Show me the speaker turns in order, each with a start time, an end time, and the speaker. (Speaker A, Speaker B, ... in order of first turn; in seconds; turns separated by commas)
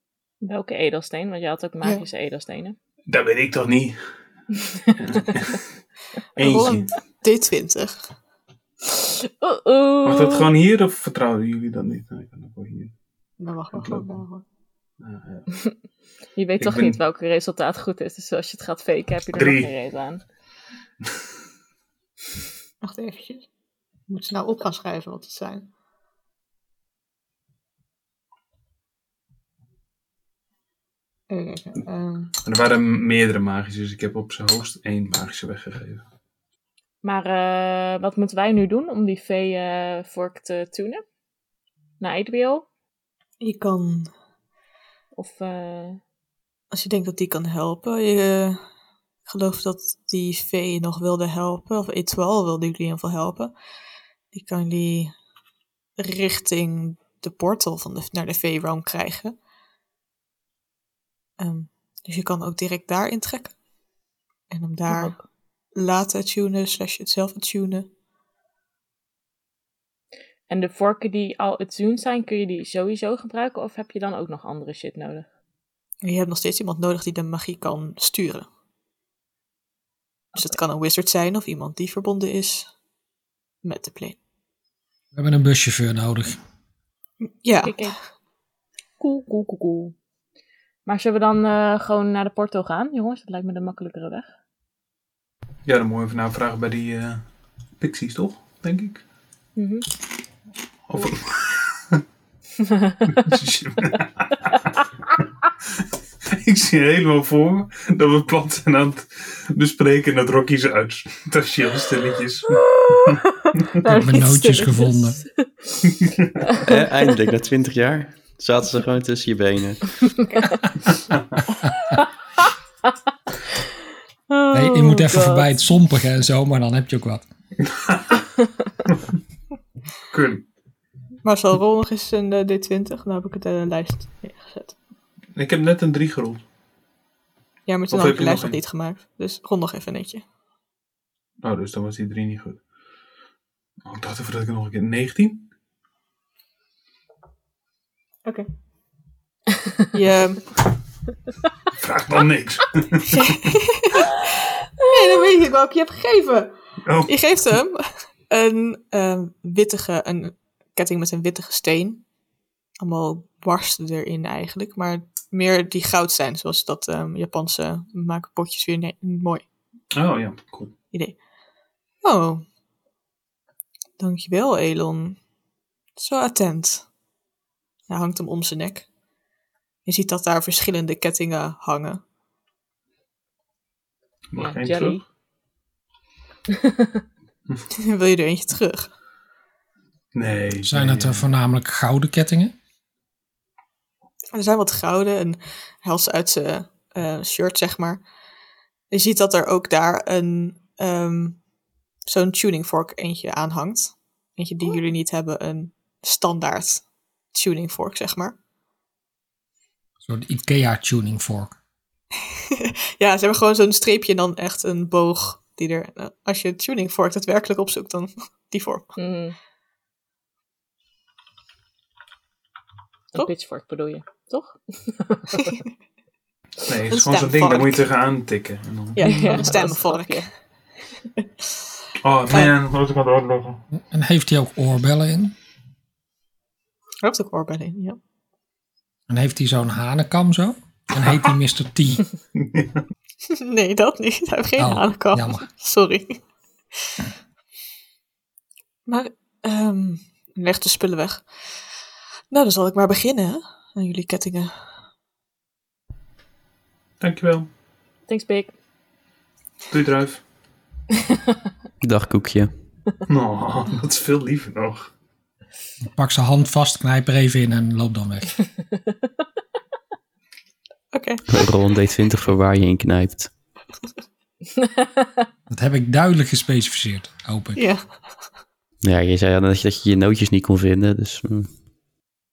Speaker A: 0.4-2.8, Speaker B: 3.1-4.0, Speaker A: 4.6-5.5, Speaker B: 5.0-5.6, Speaker B: 6.4-6.9, Speaker C: 6.4-8.0, Speaker A: 8.9-10.5, Speaker B: 10.1-12.9, Speaker C: 13.4-14.4, Speaker B: 13.7-14.2, Speaker B: 15.0-15.5, Speaker A: 16.4-20.2, Speaker B: 16.6-17.0, Speaker B: 19.3-19.7, Speaker C: 22.8-23.5, Speaker C: 24.1-25.7, Speaker C: 31.3-32.3, Speaker B: 32.4-36.0, Speaker A: 37.0-41.0, Speaker A: 42.0-42.7, Speaker C: 43.4-44.1, Speaker A: 45.1-46.0, Speaker C: 46.7-48.6, Speaker C: 49.3-53.5, Speaker C: 54.3-55.1, Speaker C: 56.0-59.4, Speaker C: 61.4-63.5, Speaker C: 64.5-65.2, Speaker A: 64.9-65.2, Speaker C: 65.8-67.9, Speaker A: 70.5-75.3, Speaker C: 76.0-78.5, Speaker C: 80.3-82.7, Speaker C: 83.6-84.2, Speaker D: 85.1-86.4, Speaker C: 87.3-87.9, Speaker A: 87.6-88.0, Speaker A: 89.0-90.0, Speaker A: 90.9-94.3, Speaker B: 95.7-97.3, Speaker B: 97.8-99.0, Speaker A: 99.6-99.9, Speaker B: 100.9-102.0, Speaker A: 102.6-103.3, Speaker B: 103.1-104.4, Speaker B: 106.3-113.2, Speaker A: 112.5-116.8, Speaker D: 113.9-115.2, Speaker B: 116.0-116.3, Speaker E: 116.6-120.0, Speaker B: 120.9-121.4, Speaker A: 121.7-122.5, Speaker A: 124.3-125.6, Speaker D: 124.5-127.2, Speaker B: 127.6-128.2, Speaker B: 130.1-130.4, Speaker C: 131.2-134.8, Speaker B: 135.3-136.4, Speaker C: 137.7-140.2, Speaker B: 137.9-138.6, Speaker B: 141.4-142.6, Speaker B: 143.8-145.5, Speaker C: 149.9-150.5, Speaker B: 151.7-153.6, Speaker C: 153.2-154.3, Speaker C: 154.9-156.5, Speaker B: 156.8-157.1, Speaker C: 157.1-162.0, Speaker C: 162.8-169.4, Speaker B: 169.9-170.7, Speaker C: 170.9-171.2, Speaker C: 172.0-172.4, Speaker C: 174.0-175.2, Speaker C: 176.0-176.9, Speaker C: 177.9-178.9, Speaker C: 179.9-182.0, Speaker B: 184.3-185.0, Speaker A: 184.4-185.0, Speaker A: 186.6-187.0, Speaker C: 187.7-188.9, Speaker B: 190.1-191.2, Speaker D: 190.7-192.5, Speaker C: 194.3-198.0, Speaker C: 198.9-201.4, Speaker C: 202.1-208.4, Speaker D: 210.0-211.6, Speaker C: 212.5-218.9, Speaker A: 219.0-219.4, Speaker A: 223.1-225.6, Speaker C: 225.4-225.6, Speaker B: 226.6-229.6, Speaker C: 226.9-227.9, Speaker C: 229.0-230.3, Speaker A: 229.0-230.3, Speaker B: 232.0-233.6, Speaker D: 233.7-235.3, Speaker C: 237.0-238.0, Speaker D: 239.1-242.1, Speaker B: 242.4-242.8, Speaker C: 243.3-246.2, Speaker D: 244.6-245.5, Speaker C: 248.9-251.3, Speaker C: 252.3-254.6, Speaker B: 257.0-257.5, Speaker A: 258.1-258.5, Speaker B: 259.7-260.2, Speaker E: 261.8-262.5, Speaker B: 263.1-264.9, Speaker D: 265.8-268.4, Speaker C: 270.9-271.4, Speaker E: 271.3-273.3, Speaker A: 274.6-275.3, Speaker D: 275.5-277.7, Speaker C: 277.6-277.9, Speaker E: 278.8-281.5